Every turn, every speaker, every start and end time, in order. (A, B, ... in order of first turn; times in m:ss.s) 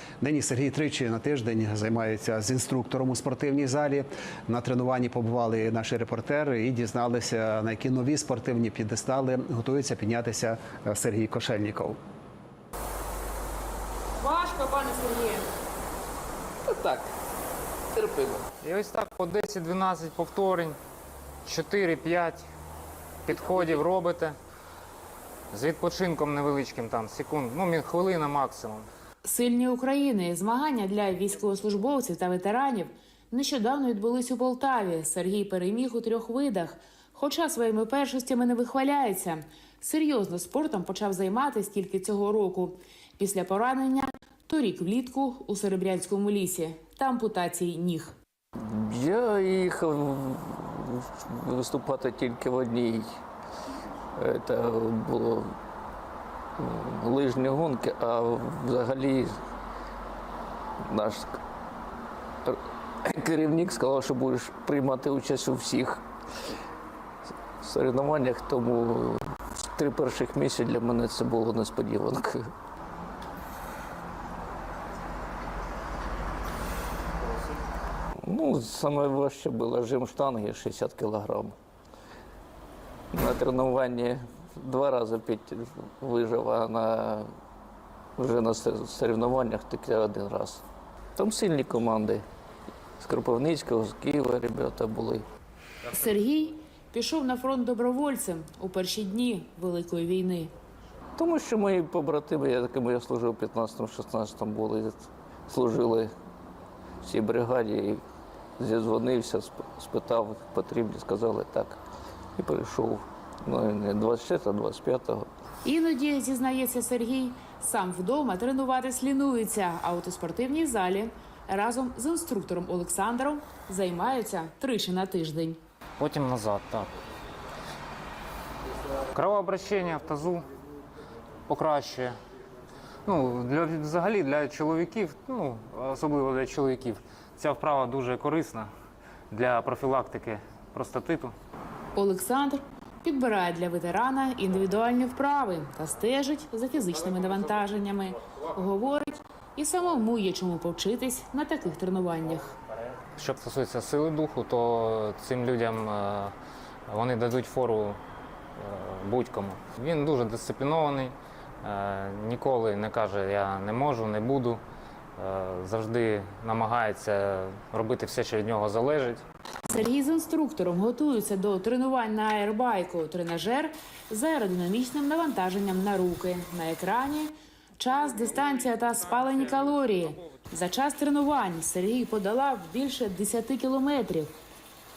0:00.2-0:12.0 A
0:14.2-0:15.4 B
0:18.6-0:20.8 C
0:21.4-0:22.4 C
0:23.2-0:24.4 C
0:25.5-0:28.9 C
0:29.2-0:48.2 B
0:48.6-0:53.1 D
0:54.2-0:55.5 D
0:56.6-0:59.3 D
1:00.8-1:01.4 D
1:02.4-1:06.0 D
1:07.6-1:12.5 D
1:18.2-1:21.6 D
1:23.1-1:27.3 D
1:28.2-1:30.6 D
1:31.2-1:32.2 D
1:33.0-1:35.3 D
1:35.9-1:40.5 B
1:41.2-1:46.1 D
1:47.0-1:48.0 D
1:48.6-1:51.8 D
1:52.4-1:55.3 D
1:55.6-2:05.6 B
2:06.0-2:06.9 C
2:09.1-2:10.5 C
2:11.5-2:12.2 C
2:13.1-2:18.7 C
2:19.3-2:21.4 C
2:21.9-2:32.5 B
2:26.9-2:27.7 C
2:33.0-2:36.3 C
2:36.9-2:38.0 C
2:38.6-2:44.6 C
2:45.2-2:49.2 C
2:49.6-3:04.3 B
2:57.8-3:00.4 C